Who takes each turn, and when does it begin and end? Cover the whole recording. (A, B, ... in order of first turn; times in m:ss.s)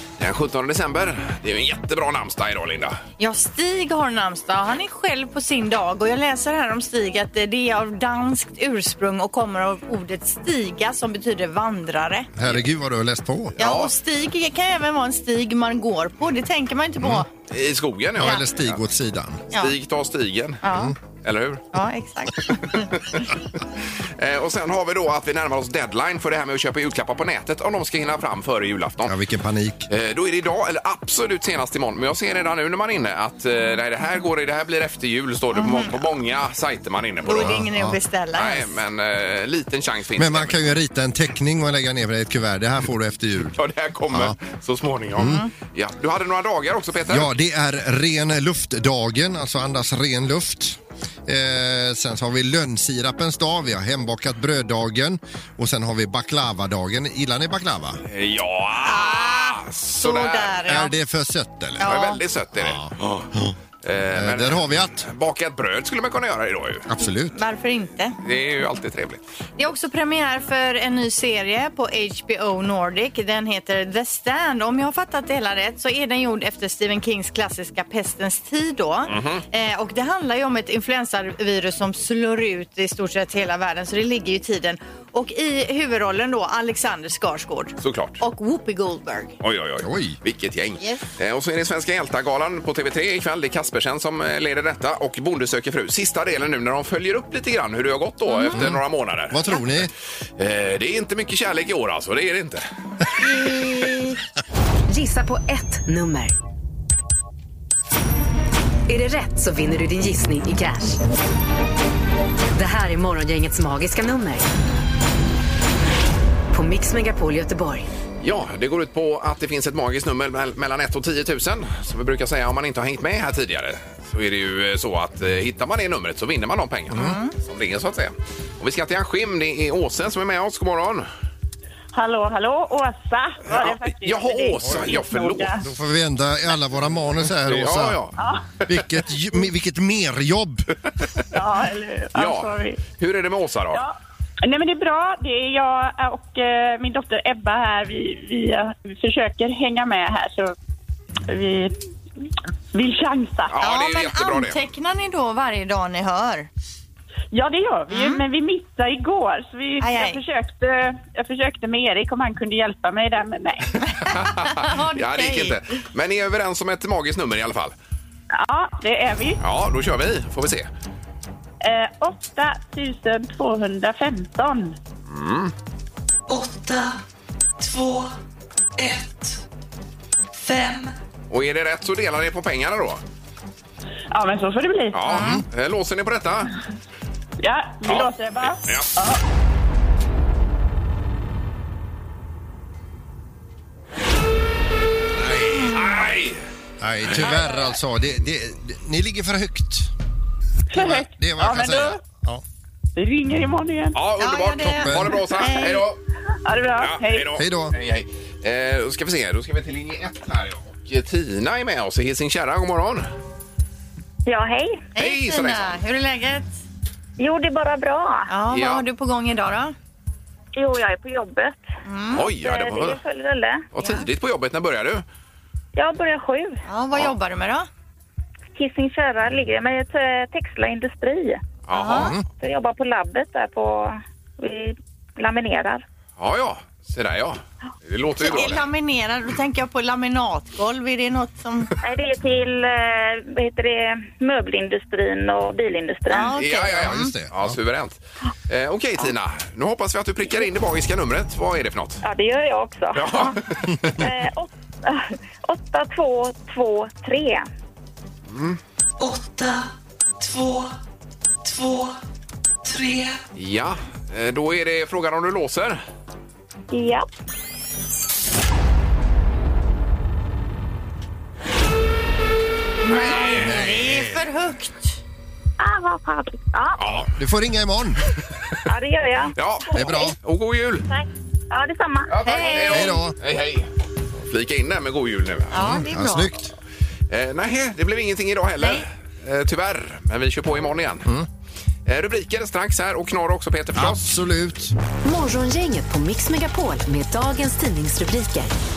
0:00.2-0:03.0 A
0:03.2-0:12.3 B
0:12.4-0:13.6 C
0:13.6-0:13.9 A
0:13.6-0:17.3 B
0:17.5-0:18.8 A
0:18.2-0:19.4 C
0:19.5-0:21.6 A
0:20.6-0:20.9 B
0:21.7-0:22.9 B
0:22.8-0:29.2 A
0:29.1-0:29.9 C
0:29.9-0:37.6 A
0:35.6-0:36.0 B
0:37.2-0:38.7 B
0:37.4-0:38.0 C
0:38.4-0:40.7 A
0:40.2-0:43.6 C
0:43.6-0:47.3 A
0:44.1-0:44.4 C
0:45.2-0:45.4 C
0:47.1-0:58.0 C
0:58.1-1:00.6 A
0:58.8-1:00.9 B
1:00.7-1:01.9 C
1:01.8-1:02.2 B
1:01.8-1:03.3 A
1:02.6-1:03.5 C
1:03.8-1:06.9 A
1:04.1-1:05.1 C
1:06.9-1:07.4 C
1:07.3-1:08.2 B
1:08.2-1:09.2 A
1:09.6-1:29.4 B
1:19.1-1:19.4 A
1:27.8-1:28.2 A
1:29.4-1:39.8 A
1:29.8-1:30.2 C
1:38.3-1:38.6 B
1:38.5-1:39.9 C
1:40.4-1:42.6 A
1:43.2-1:44.2 B
1:44.9-1:46.3 D
1:48.9-1:51.0 D
1:52.6-1:54.5 D
1:56.5-1:57.9 D
1:58.2-2:11.1 A
2:06.9-2:07.2 C
2:06.9-2:07.3 B
2:11.9-2:15.6 E
2:13.5-2:15.6 A
2:15.6-2:18.0 C
2:17.4-2:18.2 A
2:18.2-2:18.5 E
2:18.6-2:20.7 C
2:21.3-2:22.8 E
2:22.2-2:23.8 A
2:23.7-2:30.5 E
2:31.3-2:31.7 E
2:32.7-2:33.6 E
2:33.5-2:34.6 A
2:33.6-2:36.5 B
2:37.3-2:43.8 E
2:37.9-2:38.2 B
2:39.8-2:40.2 B
2:44.0-2:45.6 B
2:44.1-2:47.7 A
2:48.3-2:49.4 E
2:49.4-2:50.7 A
2:51.6-2:54.8 E
2:55.1-2:55.5 A
2:56.3-2:57.0 F
2:57.6-2:58.1 F
2:58.8-2:59.4 F
3:00.4-3:00.9 F
3:01.3-3:03.0 A
3:04.1-3:05.3 E
3:04.9-3:06.5 A
3:05.1-3:05.4 C
3:07.4-3:09.2 E
3:07.8-3:08.9 A
3:15.2-3:15.9 C
3:15.6-3:16.4 A
3:16.8-3:19.9 C
3:20.7-3:22.0 E
3:20.7-3:22.4 C
3:23.0-3:24.0 E
3:24.0-3:26.0 A
3:24.2-3:25.8 B
3:24.8-3:25.2 C
3:26.4-3:27.3 E
3:26.8-3:33.1 A
3:27.4-3:27.8 C
3:34.3-3:34.9 G
3:34.9-3:36.5 B
3:35.0-3:35.8 A
3:37.2-3:38.3 G
3:38.3-3:39.7 B
3:38.5-3:38.8 A
3:40.6-3:41.6 G
3:41.8-3:42.3 B
3:42.1-3:43.0 A
3:42.3-3:43.7 G
3:43.7-3:45.0 A
3:43.8-3:44.1 B
3:45.8-3:46.6 G
3:46.7-3:47.7 B
3:48.6-3:51.5 G
3:51.7-3:52.2 A
3:51.7-3:52.1 B
3:52.0-3:52.2 C
3:52.4-3:55.8 G
3:56.2-3:58.7 A
3:58.2-4:01.7 B
4:01.8-4:06.4 G
4:06.1-4:07.1 B
4:06.3-4:12.0 A
4:06.7-4:07.6 C
4:12.0-4:13.4 G
4:13.0-4:14.0 A
4:13.9-4:17.5 G
4:18.3-4:18.6 A
4:19.0-4:20.7 F
4:21.4-4:22.0 F
4:22.6-4:23.2 F
4:23.4-4:25.8 A
4:26.7-4:27.0 G
4:32.8-4:35.0 B
4:33.0-4:33.5 A
4:33.4-4:34.2 C
4:35.6-4:37.0 G
4:36.8-4:37.1 A
4:37.2-4:38.0 C
4:38.7-4:40.0 G
4:39.4-4:40.8 A
4:39.7-4:40.2 C
4:40.9-4:42.8 G
4:42.1-4:43.7 A
4:42.2-4:42.9 B
4:42.7-4:43.2 C
4:44.2-4:45.8 A
4:45.5-4:46.3 B
4:45.6-4:46.5 C
4:47.1-4:51.1 A
4:51.9-4:54.1 A
4:53.8-4:54.8 C
4:55.0-4:58.5 D